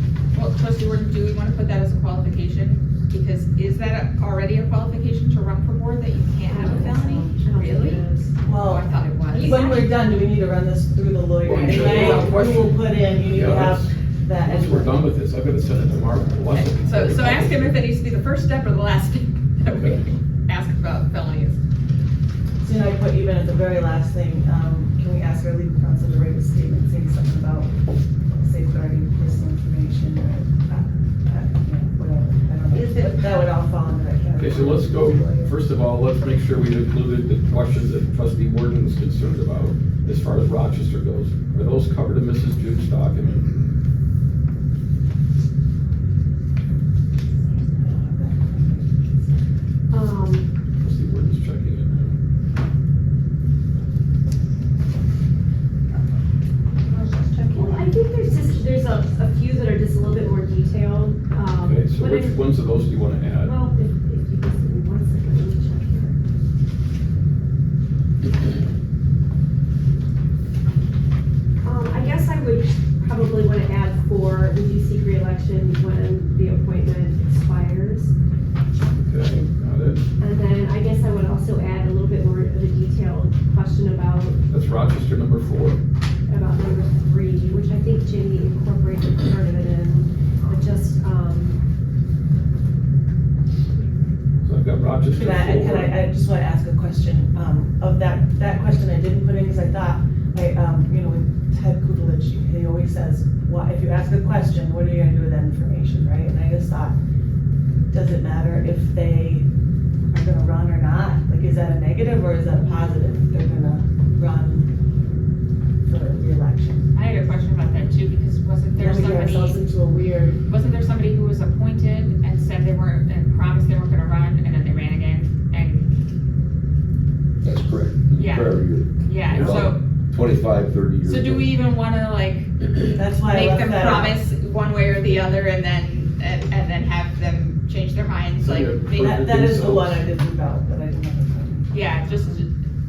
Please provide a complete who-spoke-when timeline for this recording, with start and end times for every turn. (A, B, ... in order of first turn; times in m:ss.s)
0:00.3-0:08.0 A
0:06.5-0:08.3 B
0:08.4-0:15.1 C
0:08.6-0:09.8 A
0:09.3-0:09.8 B
0:11.4-0:17.7 D
0:11.5-0:12.5 A
0:16.5-0:21.6 A
0:22.6-0:27.7 C
0:28.3-0:35.5 C
0:32.7-0:33.2 A
0:34.4-0:43.5 D
0:47.8-0:49.3 C
0:49.9-0:50.5 B
0:50.8-0:52.2 D
0:56.9-0:57.8 A
0:57.5-1:02.4 B
1:01.5-1:03.5 D
1:03.4-1:06.2 B
1:11.6-1:18.1 B
1:18.9-1:20.0 D
1:20.2-1:24.4 B
1:24.5-1:25.8 D
1:26.3-1:31.6 B
1:34.4-1:36.0 D
1:35.1-1:47.0 C
1:47.9-1:49.5 C
1:50.1-1:54.7 C
1:55.8-1:56.9 C
1:56.9-1:59.6 A
1:58.7-2:00.4 C
2:00.5-2:05.9 A
2:07.4-2:11.5 E
2:08.1-2:09.8 A
2:11.0-2:12.5 A
2:12.9-2:14.2 C
2:13.2-2:19.2 A
2:18.4-2:20.0 D
2:19.0-2:21.7 C
2:21.7-2:22.5 A